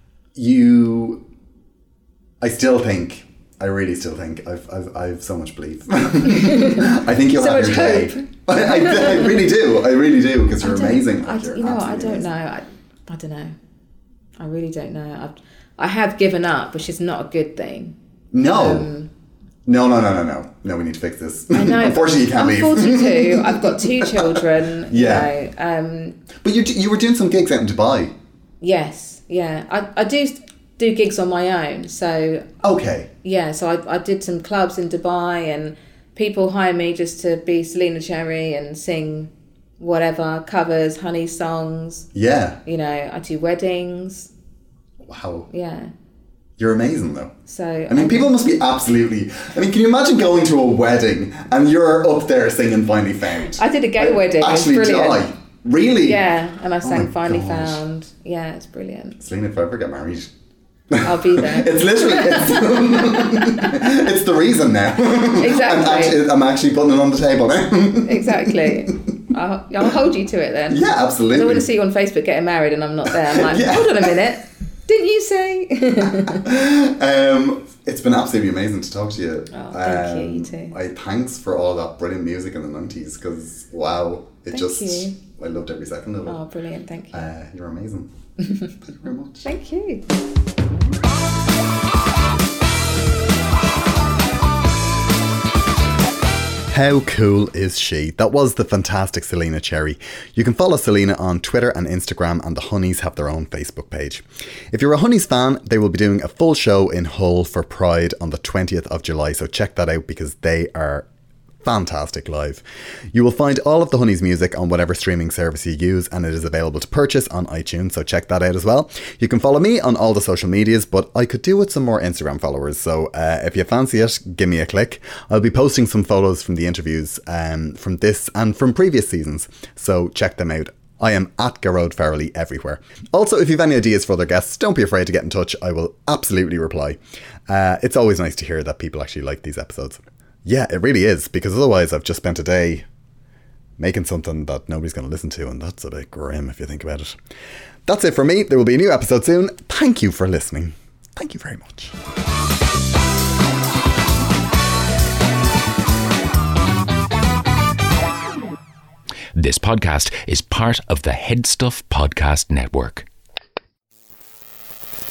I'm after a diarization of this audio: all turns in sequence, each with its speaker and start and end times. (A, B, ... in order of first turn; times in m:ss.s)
0:00.3-0:01.2 A
0:02.4-0:12.3 A
0:06.2-0:09.4 B
0:10.6-0:13.5 B
0:14.4-0:19.1 B
0:18.3-0:18.9 A
0:19.6-0:25.3 A
0:21.5-0:26.2 B
0:26.4-0:28.1 A
0:28.6-0:32.5 B
0:32.6-0:33.1 A
0:33.2-0:42.1 B
0:42.1-0:42.6 A
0:42.6-0:44.3 B
0:45.0-0:45.5 A
0:45.5-0:45.9 B
0:46.6-0:47.3 A
0:47.5-0:48.3 B
0:47.9-0:56.3 A
0:53.5-0:55.3 B
0:56.0-0:59.2 B
0:56.8-0:57.8 A
0:59.2-1:00.3 A
1:00.9-1:09.0 A
1:01.0-1:03.9 B
1:05.4-1:06.2 B
1:08.0-1:16.4 B
1:10.7-1:11.7 A
1:13.1-1:14.1 A
1:16.0-1:26.4 A
1:19.5-1:20.7 B
1:24.5-1:25.2 B
1:26.2-1:27.3 B
1:27.1-1:28.1 A
1:28.8-1:29.5 A
1:29.4-1:30.0 B
1:36.7-1:51.1 A
1:51.6-2:22.9 A
2:23.8-2:27.2 A
2:27.8-2:31.9 A
2:39.4-2:43.1 C